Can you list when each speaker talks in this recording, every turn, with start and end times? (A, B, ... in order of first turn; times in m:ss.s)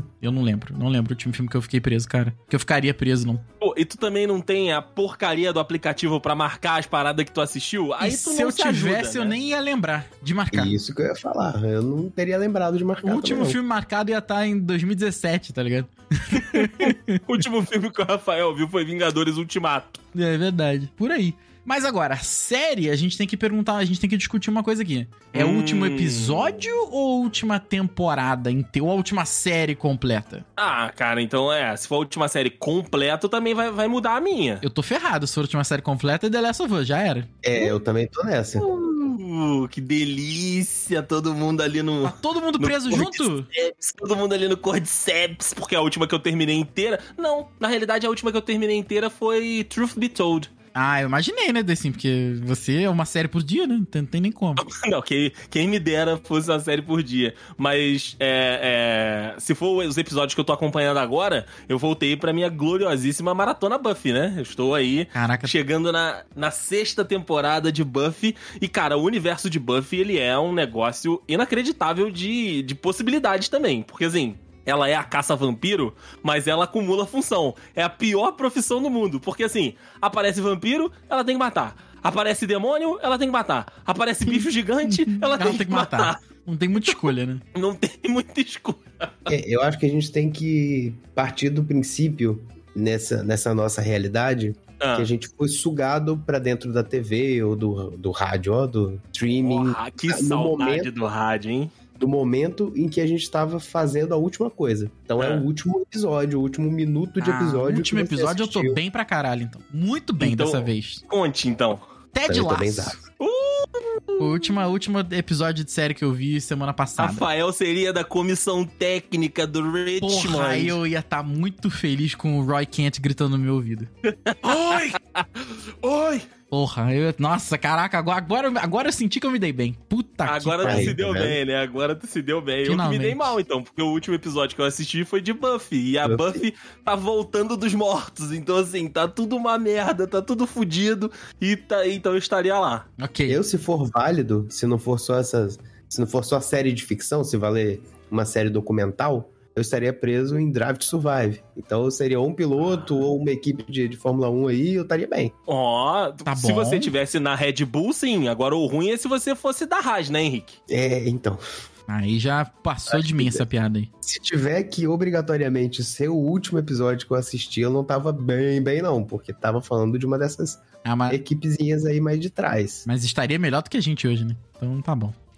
0:00.2-0:03.4 A
0:03.6-0:09.4 B
0:08.0-0:10.7 A
0:10.5-0:13.6 C
0:13.0-0:17.2 A
0:16.4-0:20.0 B
0:20.1-0:30.4 A
0:25.3-0:26.6 B
0:30.6-0:34.6 B
0:34.6-0:37.3 A
0:37.4-0:38.6 C
0:38.6-0:50.5 B
0:42.0-0:43.5 A
0:50.8-0:54.6 A
0:54.6-1:26.2 B
1:05.1-1:05.5 A
1:24.3-1:27.4 A
1:26.8-1:29.3 B
1:29.3-1:40.9 C
1:34.8-1:35.1 B
1:39.4-1:41.7 B
1:42.0-1:48.8 C
1:45.2-1:45.5 B
1:47.2-1:51.0 A
1:50.2-1:51.8 B
1:52.1-1:53.0 A
1:52.3-1:53.0 C
1:53.2-1:54.4 B
1:54.2-1:57.2 A
1:57.0-2:00.8 B
2:00.0-2:03.9 A
2:04.1-2:06.3 B
2:04.5-2:04.8 A
2:06.5-2:11.0 A
2:10.3-2:22.9 B
2:10.6-2:11.4 C
2:12.6-2:13.4 A
2:16.0-2:16.4 C
2:23.0-2:23.4 A
2:23.3-2:35.3 C
2:35.5-2:40.6 B
2:36.3-2:36.9 A
2:40.7-2:41.4 C
2:41.9-2:43.9 A
2:42.9-2:43.5 C
2:44.0-2:52.9 C
2:50.8-2:51.2 A
2:52.9-2:55.1 A